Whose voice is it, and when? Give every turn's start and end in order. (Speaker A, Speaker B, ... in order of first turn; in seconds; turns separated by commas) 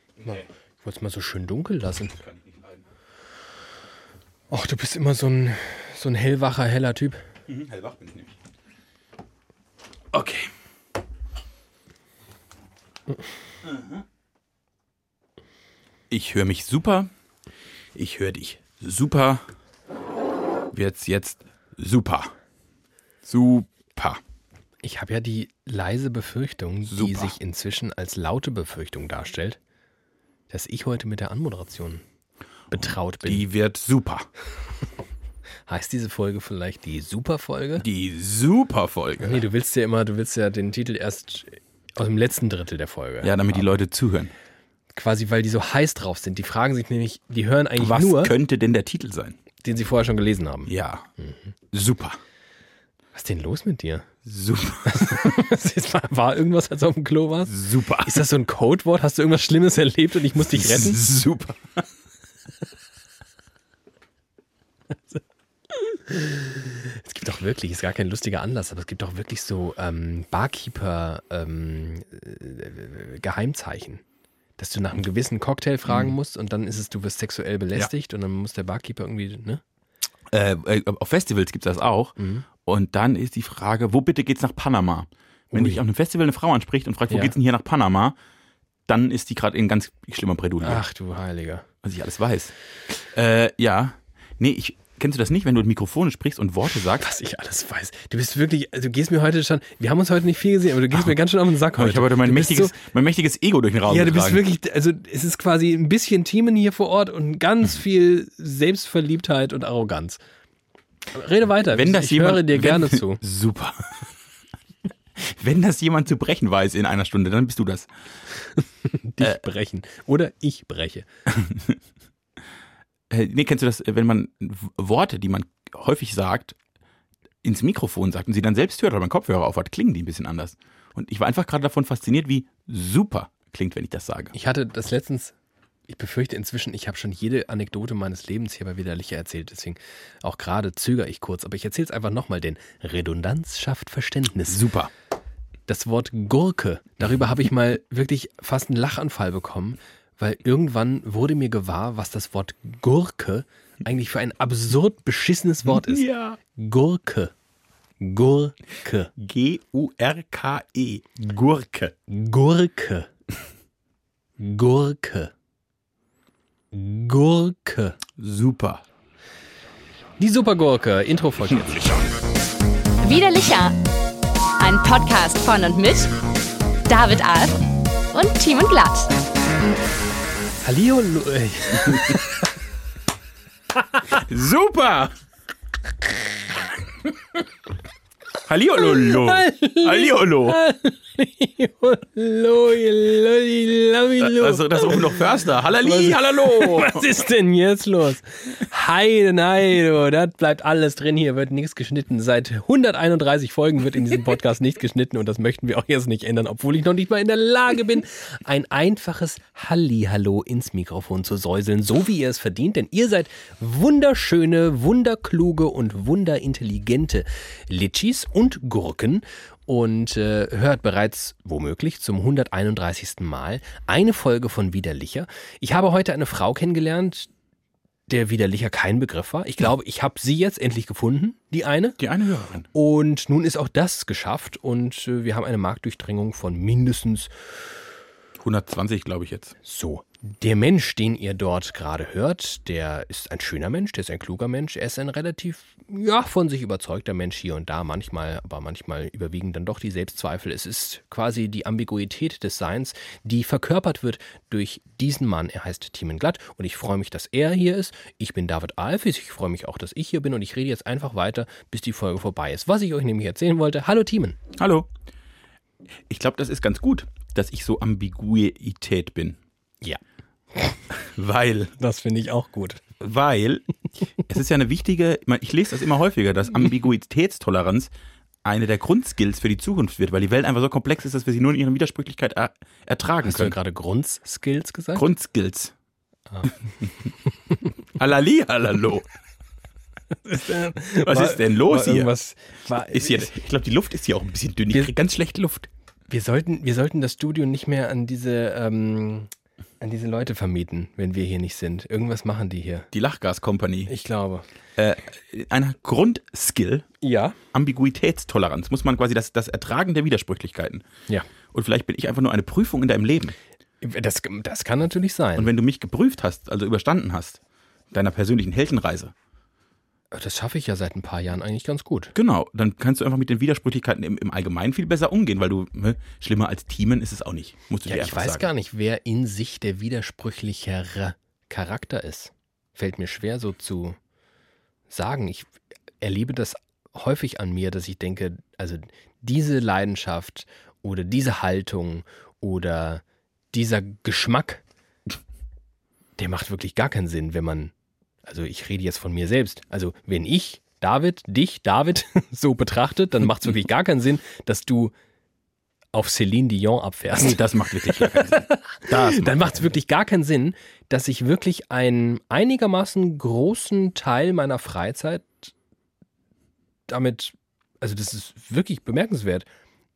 Speaker A: 0.2-2.1, Speaker B: 2.2-2.8, Speaker A: 4.5-7.2, Speaker B: 7.5-8.3, Speaker B: 10.1-10.5, Speaker B: 13.7-14.0, Speaker B: 16.1-17.1, Speaker B: 17.9-19.4, Speaker B: 20.7-22.3, Speaker B: 23.2-24.2, Speaker A: 24.8-29.6, Speaker B: 26.9-27.3, Speaker A: 30.5-32.0, Speaker A: 32.7-33.5, Speaker B: 33.2-34.3, Speaker A: 35.7-37.8, Speaker B: 37.8-39.4, Speaker A: 39.2-43.7, Speaker B: 43.2-44.3, Speaker A: 44.9-48.3, Speaker B: 47.8-49.4, Speaker A: 49.6-51.5, Speaker B: 50.7-51.1, Speaker B: 51.7-52.2, Speaker A: 53.1-54.1, Speaker B: 54.2-55.4, Speaker A: 54.8-61.0, Speaker B: 57.5-58.3, Speaker B: 60.5-61.8, Speaker A: 65.1-74.0, Speaker A: 74.6-79.6, Speaker B: 80.3-88.2, Speaker A: 82.2-82.5, Speaker A: 85.5-85.8, Speaker B: 88.9-90.8, Speaker A: 90.6-91.7, Speaker B: 91.8-97.1, Speaker A: 96.9-102.7, Speaker B: 101.7-104.4, Speaker A: 103.9-110.2, Speaker A: 111.1-113.2, Speaker B: 111.7-114.1, Speaker B: 115.2-117.9, Speaker A: 118.8-121.1, Speaker B: 121.3-121.8, Speaker B: 123.1-126.5, Speaker B: 127.4-134.3, Speaker A: 134.3-135.3, Speaker A: 135.9-144.7, Speaker B: 144.5-144.9, Speaker A: 145.7-157.3, Speaker B: 155.6-156.4, Speaker A: 158.0-159.1, Speaker B: 159.2-161.9, Speaker A: 162.1-163.1, Speaker A: 164.4-165.3, Speaker A: 166.7-168.0, Speaker B: 168.2-168.8, Speaker A: 170.2-172.1, Speaker C: 173.0-173.8, Speaker C: 174.6-176.1, Speaker C: 176.8-179.1, Speaker A: 180.6-182.4, Speaker B: 184.1-185.1, Speaker B: 188.4-190.6, Speaker A: 188.8-195.2, Speaker B: 194.2-197.1, Speaker A: 195.8-227.3, Speaker A: 228.1-232.0, Speaker B: 232.0-232.7, Speaker A: 232.7-237.3, Speaker B: 238.4-239.6, Speaker A: 239.6-264.4, Speaker B: 264.6-264.9, Speaker B: 266.1-269.4, Speaker B: 270.9-271.7, Speaker A: 271.8-272.8, Speaker B: 273.0-273.6, Speaker B: 274.2-277.9, Speaker B: 278.4-283.6, Speaker A: 283.2-285.1, Speaker B: 284.9-285.7, Speaker B: 288.0-289.1, Speaker A: 290.2-293.3, Speaker B: 291.0-292.1, Speaker B: 292.9-295.7, Speaker A: 296.1-299.3, Speaker A: 299.8-302.9, Speaker B: 302.9-303.9, Speaker A: 303.9-304.4, Speaker B: 304.8-306.8, Speaker A: 307.0-307.4, Speaker B: 307.5-310.9, Speaker B: 311.5-313.3, Speaker A: 313.8-315.5, Speaker B: 315.4-317.4, Speaker B: 317.9-319.1, Speaker A: 320.1-322.1, Speaker B: 322.1-328.5, Speaker A: 327.9-334.0, Speaker A: 334.9-335.5, Speaker A: 336.0-344.6, Speaker A: 346.2-347.7, Speaker A: 348.2-354.9, Speaker A: 355.9-365.5, Speaker B: 357.1-359.6, Speaker A: 366.9-369.4